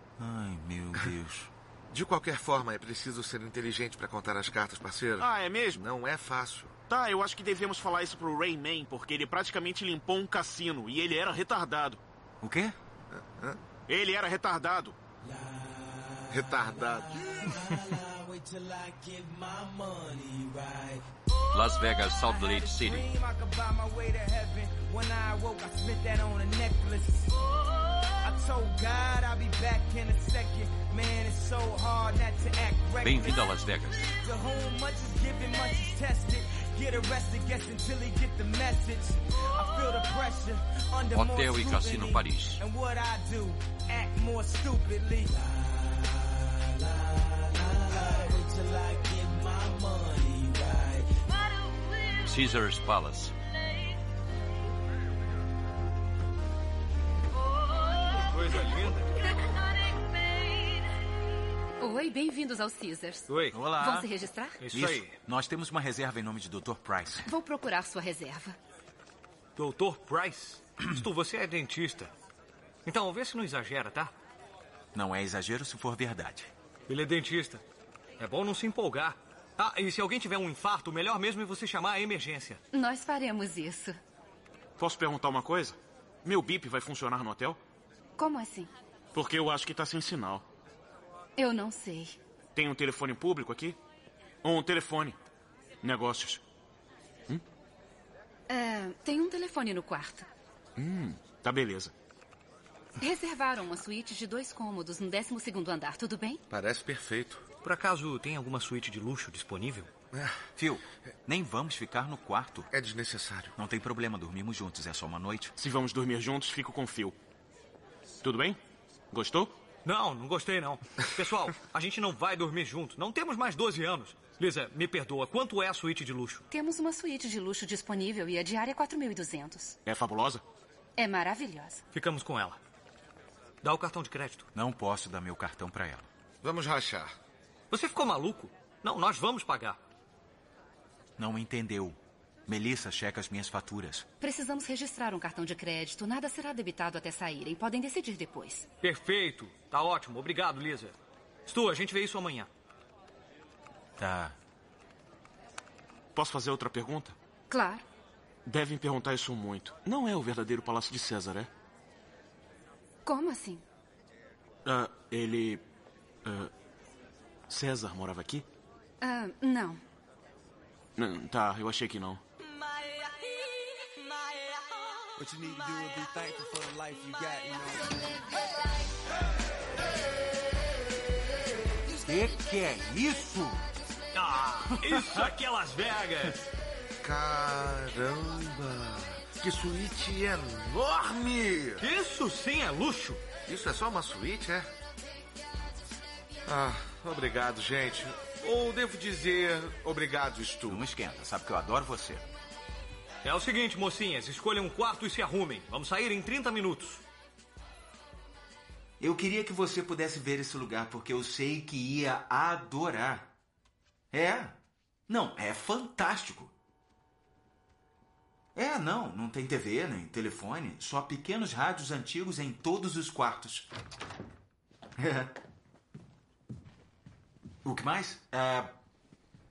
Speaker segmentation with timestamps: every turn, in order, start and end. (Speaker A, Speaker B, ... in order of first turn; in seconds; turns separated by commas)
Speaker A: 0.2-1.5, Speaker B: 1.9-6.7, Speaker C: 5.2-5.8, Speaker C: 6.9-12.0, Speaker A: 12.4-12.8, Speaker B: 13.1-13.6, Speaker C: 13.9-14.9, Speaker D: 15.2-21.0, Speaker B: 16.3-17.1, Speaker E: 21.5-23.1, Speaker D: 22.2-27.3, Speaker D: 28.2-33.5, Speaker E: 33.0-34.1, Speaker D: 34.2-51.1, Speaker E: 41.1-42.6, Speaker E: 52.2-53.3, Speaker F: 58.1-59.2, Speaker G: 61.8-64.6, Speaker F: 63.3-63.8, Speaker A: 63.5-64.1, Speaker F: 64.6-65.1, Speaker A: 64.7-67.3, Speaker G: 67.2-68.5, Speaker F: 69.6-72.1, Speaker F: 72.8-74.1, Speaker A: 74.9-76.5, Speaker F: 76.9-77.6, Speaker F: 78.2-82.6, Speaker G: 82.7-84.0, Speaker C: 84.8-87.6, Speaker G: 88.2-88.7, Speaker C: 89.1-90.4, Speaker G: 91.4-92.2, Speaker C: 92.5-93.8, Speaker C: 94.4-95.2, Speaker C: 95.8-96.4, Speaker G: 98.5-100.3, Speaker C: 100.8-101.9, Speaker G: 103.0-106.4, Speaker B: 106.5-107.4, Speaker F: 107.6-109.9, Speaker A: 110.6-112.7, Speaker B: 112.7-113.5, Speaker A: 113.5-115.5, Speaker C: 115.6-117.2, Speaker C: 118.2-118.6, Speaker C: 119.1-119.5, Speaker F: 119.8-126.4, Speaker G: 126.5-129.8, Speaker C: 129.8-130.4, Speaker G: 131.0-131.8, Speaker F: 131.9-132.6, Speaker F: 133.6-134.5, Speaker A: 134.5-136.1, Speaker B: 136.4-137.1, Speaker F: 137.7-139.8, Speaker A: 141.2-144.1, Speaker G: 144.2-148.7, Speaker F: 148.8-150.9, Speaker F: 151.5-152.5, Speaker A: 154.0-154.3, Speaker C: 156.1-157.1, Speaker G: 157.5-157.8, Speaker C: 158.4-161.5, Speaker G: 163.1-163.6, Speaker C: 164.6-165.6, Speaker C: 166.2-166.5, Speaker C: 167.5-168.4, Speaker G: 169.0-169.8, Speaker C: 171.0-172.2, Speaker A: 182.0-183.7, Speaker F: 184.1-186.4, Speaker B: 187.0-191.8, Speaker F: 191.8-193.2, Speaker B: 193.4-194.7, Speaker B: 196.4-200.8, Speaker A: 200.7-202.3, Speaker F: 203.2-207.0, Speaker A: 209.0-213.3, Speaker A: 214.1-214.6, Speaker A: 215.1-216.5, Speaker A: 218.5-223.7, Speaker A: 225.0-225.3, Speaker A: 227.6-228.7